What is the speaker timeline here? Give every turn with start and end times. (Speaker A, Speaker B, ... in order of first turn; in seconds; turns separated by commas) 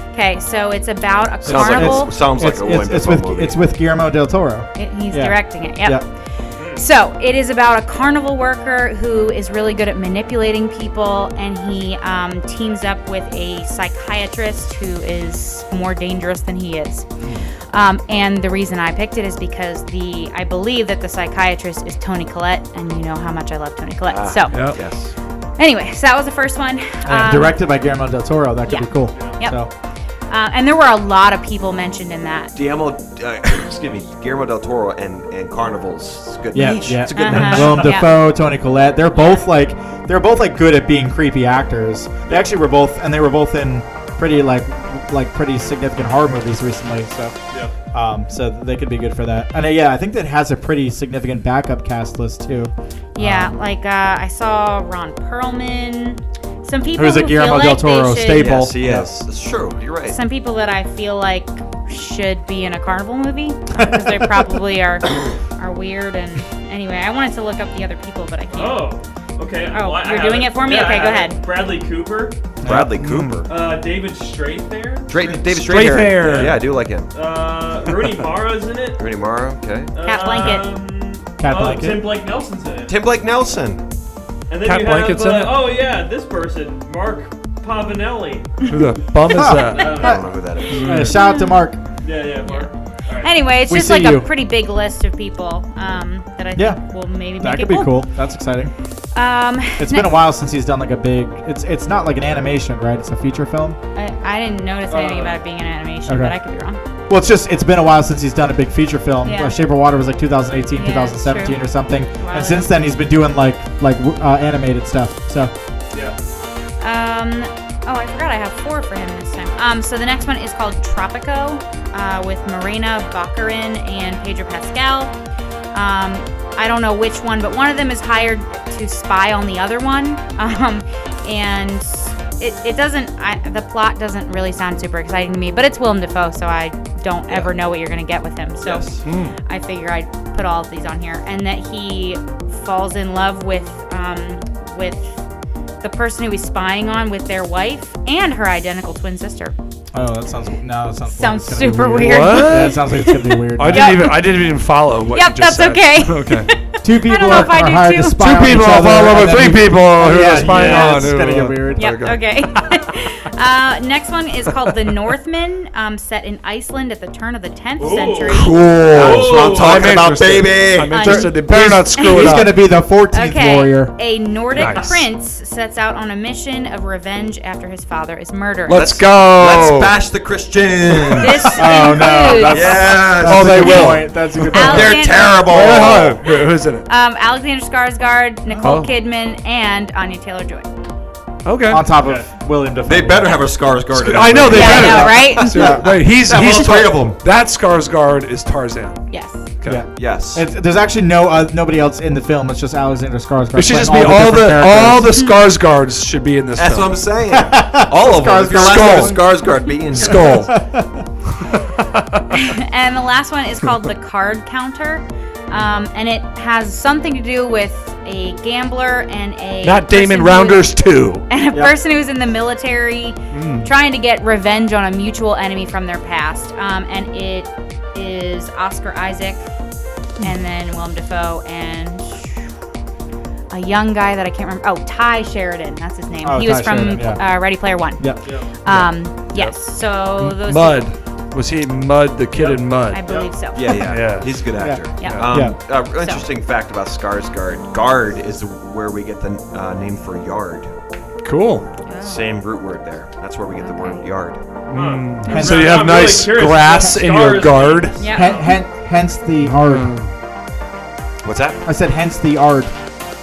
Speaker A: 0.1-2.1, Speaker B: 1.4-3.6, Speaker C: 1.5-6.0, Speaker A: 4.8-6.1, Speaker D: 6.5-6.8, Speaker A: 6.7-17.1, Speaker B: 17.2-17.5, Speaker A: 17.7-24.7, Speaker B: 24.0-25.1, Speaker E: 24.5-24.8, Speaker A: 25.6-27.6, Speaker C: 27.0-29.7, Speaker A: 28.7-29.6, Speaker D: 29.1-29.4, Speaker A: 30.3-32.5, Speaker B: 32.5-37.9, Speaker C: 36.5-47.4, Speaker A: 37.1-38.2, Speaker A: 39.2-39.4, Speaker C: 47.9-53.5, Speaker A: 53.1-58.6, Speaker C: 56.9-59.1, Speaker B: 58.3-60.2, Speaker A: 60.1-68.9, Speaker C: 63.7-64.5, Speaker D: 68.5-72.4, Speaker A: 69.7-71.4, Speaker C: 72.6-73.0, Speaker B: 72.6-73.5, Speaker E: 73.0-73.4, Speaker D: 73.5-75.3, Speaker B: 75.1-77.1, Speaker E: 75.5-76.6, Speaker D: 75.9-79.1, Speaker B: 79.0-79.9, Speaker D: 79.9-83.0, Speaker A: 80.0-80.7, Speaker C: 81.4-82.1, Speaker B: 82.8-83.8, Speaker D: 84.5-88.7, Speaker E: 84.6-85.6, Speaker E: 88.7-90.2, Speaker C: 89.3-90.2, Speaker D: 89.5-90.8, Speaker B: 90.0-90.8, Speaker C: 90.7-91.8, Speaker E: 90.7-91.2, Speaker A: 91.1-91.6, Speaker D: 92.0-93.3, Speaker A: 92.4-92.7, Speaker A: 93.2-98.0, Speaker C: 93.7-94.3, Speaker C: 96.5-96.8, Speaker C: 97.4-98.7, Speaker A: 99.1-100.2, Speaker C: 99.8-103.8, Speaker A: 103.9-106.8, Speaker D: 104.9-105.4, Speaker C: 106.0-106.3, Speaker C: 107.1-115.5, Speaker A: 109.2-109.5, Speaker A: 110.8-111.6, Speaker A: 112.2-112.7, Speaker A: 116.8-125.1, Speaker A: 125.7-145.2, Speaker B: 137.3-137.5, Speaker B: 138.6-139.0, Speaker E: 139.0-139.4, Speaker A: 145.8-149.6, Speaker C: 149.9-154.1, Speaker A: 151.1-154.4, Speaker E: 152.0-152.8, Speaker E: 153.5-156.5, Speaker A: 155.0-158.3, Speaker C: 156.8-162.0, Speaker E: 158.2-162.3, Speaker A: 161.8-168.6, Speaker D: 167.8-170.0, Speaker E: 168.2-172.6, Speaker B: 168.9-171.0, Speaker A: 170.9-172.5, Speaker C: 170.9-173.9, Speaker A: 173.1-179.0, Speaker E: 174.5-175.0, Speaker E: 178.7-180.0, Speaker B: 178.7-181.6, Speaker E: 181.0-181.5, Speaker A: 181.2-183.0, Speaker C: 181.5-185.1, Speaker B: 182.4-186.2, Speaker E: 182.6-186.9, Speaker A: 184.5-190.7, Speaker C: 188.5-188.8, Speaker E: 188.6-188.9, Speaker E: 191.4-191.8, Speaker C: 191.7-193.4, Speaker B: 192.8-197.2, Speaker E: 193.9-199.0, Speaker A: 194.5-195.8, Speaker C: 194.5-195.7, Speaker A: 199.1-199.5, Speaker E: 199.6-199.9, Speaker C: 199.6-205.1, Speaker B: 199.7-200.4, Speaker E: 203.5-207.0, Speaker B: 206.6-210.5, Speaker C: 207.3-209.3, Speaker E: 208.5-209.2, Speaker E: 209.9-210.6, Speaker C: 210.0-211.0, Speaker E: 211.5-212.2, Speaker A: 212.3-229.4, Speaker E: 219.6-221.2, Speaker E: 223.3-223.7, Speaker A: 230.2-232.4, Speaker A: 233.5-240.8, Speaker C: 236.2-238.9, Speaker E: 239.3-239.6, Speaker E: 240.2-243.0, Speaker D: 242.3-243.3, Speaker A: 242.9-244.0, Speaker B: 243.5-250.7, Speaker E: 243.7-244.4, Speaker C: 244.5-245.6, Speaker A: 245.0-245.3, Speaker E: 245.0-245.3, Speaker A: 245.9-246.2, Speaker E: 251.2-251.7, Speaker A: 251.8-252.3, Speaker B: 252.0-254.4, Speaker A: 253.6-254.0, Speaker E: 254.7-258.0, Speaker D: 254.7-258.6, Speaker A: 255.3-255.6, Speaker C: 255.3-255.8, Speaker A: 258.0-258.5, Speaker C: 258.1-259.9, Speaker E: 259.4-260.1, Speaker B: 261.2-261.6, Speaker C: 261.6-262.7